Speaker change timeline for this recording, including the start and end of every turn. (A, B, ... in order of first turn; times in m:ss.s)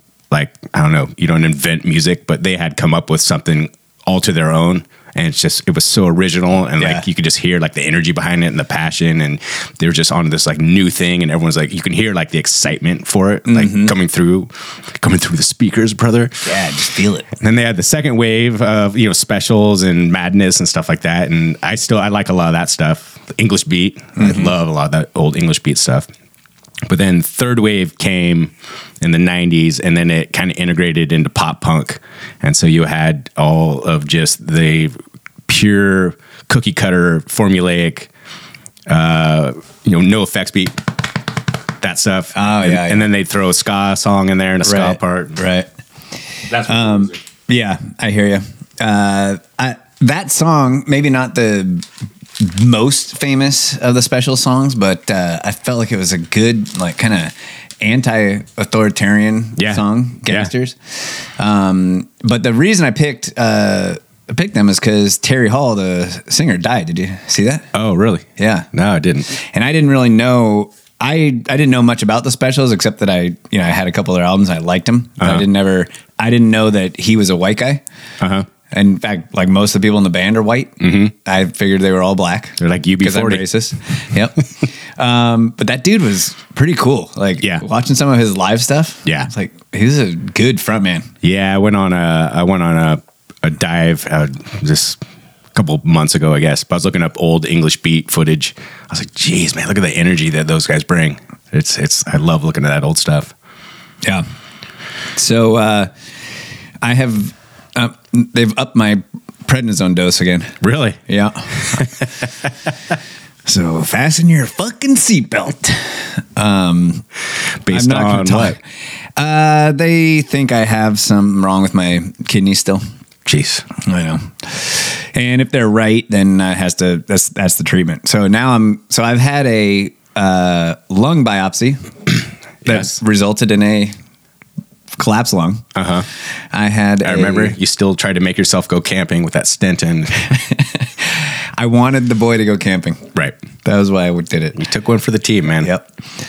0:00.3-0:16.5 A
0:06.8-0:07.0 B
0:13.4-0:13.9 B
0:16.4-0:17.3 B
0:17.4-0:26.1 A
0:24.2-0:24.5 B
0:26.9-0:35.0 A
0:35.5-0:38.1 A
0:38.9-0:41.0 A
0:41.8-0:45.4 A
0:42.3-0:43.0 B
0:44.6-0:45.7 B
0:46.5-0:47.1 A
0:46.5-0:51.8 B
0:52.4-1:07.7 B
0:59.6-1:00.5 A
1:07.7-1:09.3 A
1:08.4-1:08.7 B
1:09.3-1:17.8 B
1:15.2-1:15.4 A
1:18.2-1:18.4 A
1:18.7-1:31.1 B
1:20.8-1:21.1 A
1:22.6-1:23.4 A
1:31.2-1:35.0 A
1:35.5-1:43.3 A
1:45.2-1:45.9 B
1:46.8-1:51.8 B
1:50.6-1:51.0 A
1:51.6-1:52.1 A
1:53.4-1:57.0 B
1:57.6-1:58.6 A
1:57.7-2:02.8 B
2:03.2-2:03.7 A
2:03.8-2:11.8 B
2:12.6-2:12.9 A
2:12.6-2:14.0 B
2:15.0-2:15.6 B
2:15.8-2:16.1 A
2:16.5-2:17.6 B
2:17.0-2:20.2 A
2:20.3-2:23.1 B
2:23.6-2:24.6 B
2:24.6-2:25.7 A